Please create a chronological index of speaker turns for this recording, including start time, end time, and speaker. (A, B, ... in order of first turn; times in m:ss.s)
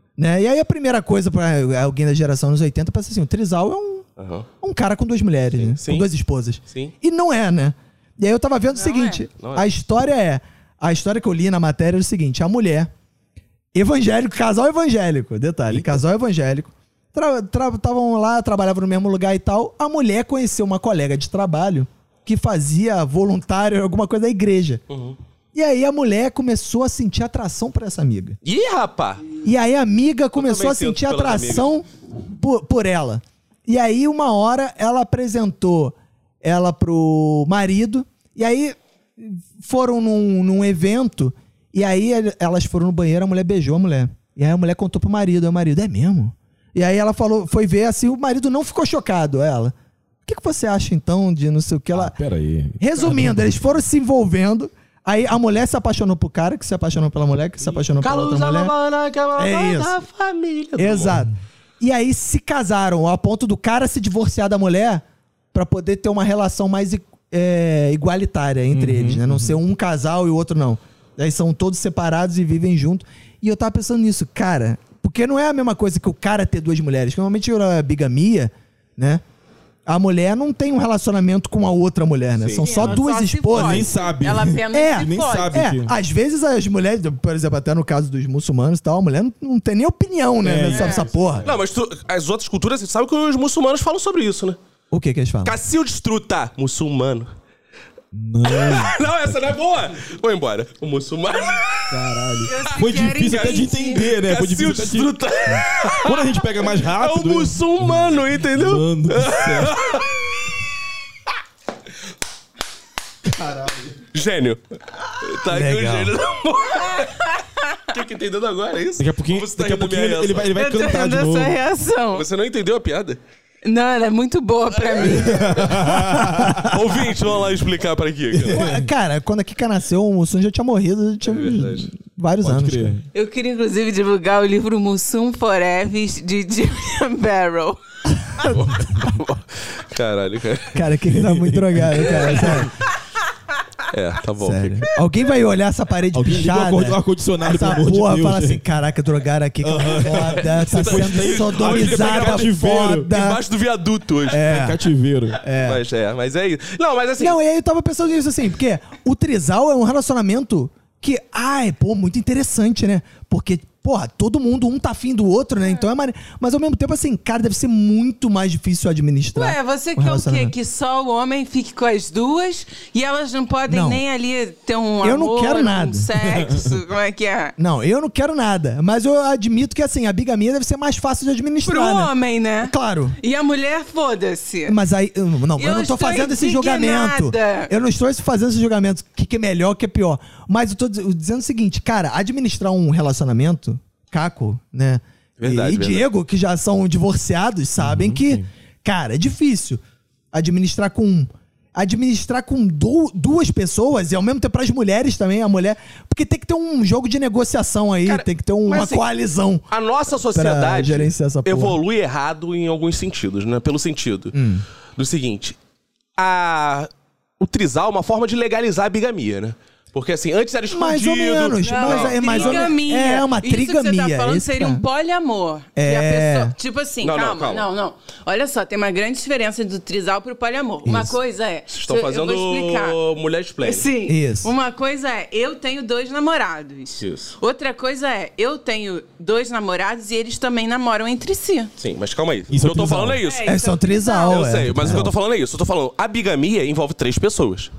0:00.2-0:04.0 A
0:04.2-0:04.5 B
0:04.6-0:12.9 A
0:05.5-0:06.1 B
0:08.8-0:09.2 C
0:09.4-0:09.7 B
0:13.7-0:24.8 A
0:24.9-0:25.2 B
0:25.5-0:28.4 A
0:28.4-0:29.2 B
0:29.4-0:49.7 A
0:30.4-0:31.7 B
0:50.2-0:52.1 A
0:51.9-0:53.6 D
0:52.8-0:58.7 A
0:58.0-1:01.2 B
0:59.4-1:00.0 A
1:00.8-1:19.2 A
1:08.7-1:09.6 D
1:19.9-1:23.9 A
1:22.4-1:22.7 B
1:22.6-1:25.6 C
1:23.5-1:25.9 D
1:24.7-1:31.5 A
1:30.4-1:31.6 D
1:30.7-1:31.1 C
1:31.4-1:34.6 B
1:34.9-1:35.6 A
1:35.4-1:37.3 B
1:38.1-1:39.1 D
1:38.4-1:50.6 B
1:41.9-1:49.8 D
1:42.4-1:44.1 C
1:53.4-1:53.8 D
1:54.1-1:54.6 B
1:55.1-1:57.2 B
1:55.5-1:56.1 A
1:56.8-1:57.8 C
1:57.9-2:00.5 B
1:59.0-2:01.6 D
2:00.6-2:02.2 C
2:02.1-2:03.2 B
2:03.6-2:05.6 C
2:04.9-2:05.9 B
2:05.0-2:06.8 D
2:05.9-2:06.8 A
2:06.6-2:08.7 B
2:08.4-2:08.9 D
2:08.5-2:12.9 A
2:11.2-2:11.9 B
2:12.4-2:13.0 D
2:13.1-2:17.8 C
2:18.4-2:18.7 A
2:18.4-2:20.8 B
2:20.7-2:22.7 A
2:21.1-2:22.7 D
2:23.9-2:24.9 B
2:24.4-2:33.4 A
2:26.1-2:28.6 D
2:29.6-2:33.1 D
2:30.2-2:34.5 B
2:34.3-2:34.8 A
2:34.4-2:35.4 D
2:35.4-2:35.8 A
2:35.6-2:37.4 B
2:37.2-2:50.5 A
2:49.4-2:57.6 C
2:53.7-2:54.0 A
2:55.0-2:56.1 A
2:56.2-2:56.8 D
2:57.6-3:03.2 A
3:01.6-3:04.8 C
3:04.7-3:19.8 A
3:05.6-3:07.7 C
3:15.4-3:16.1 B
3:17.8-3:18.4 D
3:20.3-3:29.6 A
3:28.0-3:29.0 B
3:29.7-3:34.4 B
3:30.3-3:31.8 A
3:34.3-3:34.6 A
3:35.0-3:35.6 B
3:36.2-3:42.7 B
3:40.7-3:44.8 A
3:41.6-3:53.0 C
3:45.8-3:46.5 A
3:47.0-3:47.7 B
3:50.8-3:51.2 A
3:51.7-3:53.9 B
3:53.6-4:01.7 C
3:54.0-3:54.5 A
3:57.0-3:57.3 B
4:01.8-4:03.6 B
4:02.5-4:03.2 D
4:03.2-4:04.5 C
4:03.4-4:05.1 A
4:04.2-4:07.7 B